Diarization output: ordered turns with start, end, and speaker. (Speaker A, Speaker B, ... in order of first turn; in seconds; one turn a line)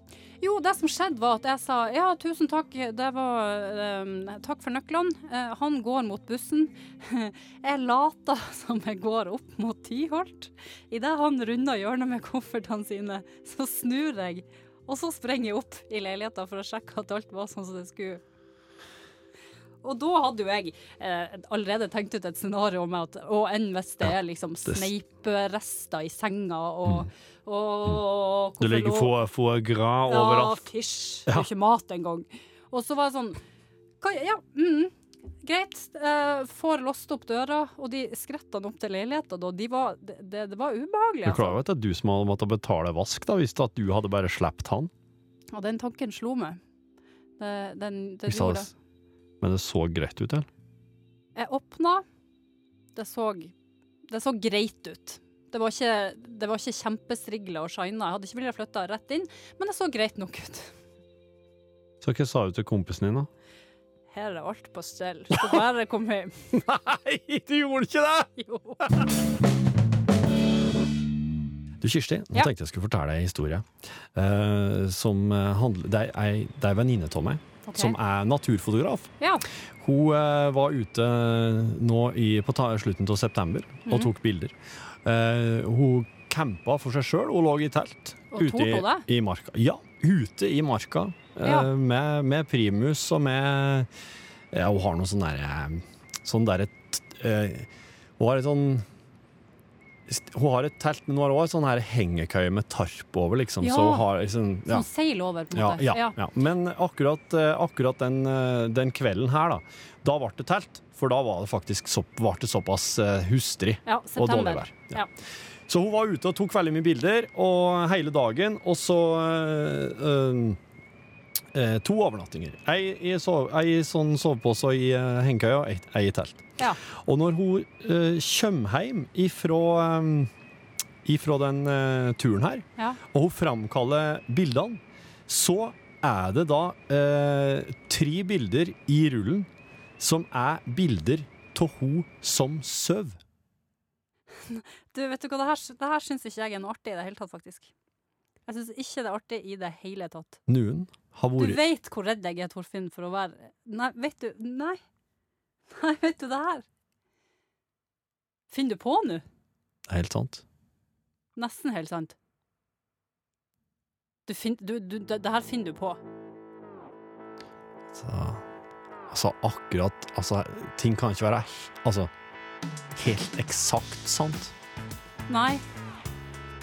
Speaker A: 0.4-18.2
Speaker A: 19.8-29.1
Speaker B: 28.6-30.7
Speaker A: 30.1-33.4
Speaker A: 34.0-34.9
Speaker A: 35.4-41.6
Speaker B: 41.3-44.9
Speaker A: 45.5-46.6
Speaker A: 47.4-48.7
Speaker B: 48.3-48.7
Speaker B: 49.4-50.5
Speaker A: 51.4-52.0
Speaker A: 53.0-53.5
Speaker A: 54.1-60.7
Speaker B: 62.0-63.3
Speaker A: 64.1-66.4
Speaker B: 65.3-65.6
Speaker B: 66.5-68.3
Speaker A: 68.4-69.0
Speaker B: 71.8-79.1
Speaker A: 77.7-78.0
Speaker A: 79.2-79.5
Speaker B: 79.8-93.9
Speaker A: 88.3-89.1
Speaker A: 91.5-91.7
Speaker B: 94.5-98.8
Speaker B: 100.1-104.9
Speaker A: 103.6-104.1
Speaker A: 104.7-106.2
Speaker B: 105.5-115.0
Speaker A: 113.9-115.1
Speaker B: 115.7-120.6
Speaker B: 121.5-130.3
Speaker B: 131.1-139.5
Speaker B: 140.0-143.2
Speaker A: 144.4-147.7
Speaker A: 148.5-150.4
Speaker B: 150.5-151.6
Speaker A: 151.4-154.8
Speaker A: 155.7-156.7
Speaker A: 158.5-159.2
Speaker B: 159.9-160.4
Speaker A: 161.4-162.2
Speaker A: 164.3-166.0
Speaker B: 167.9-168.4
Speaker B: 169.1-172.1
Speaker B: 172.9-174.5
Speaker A: 175.3-175.6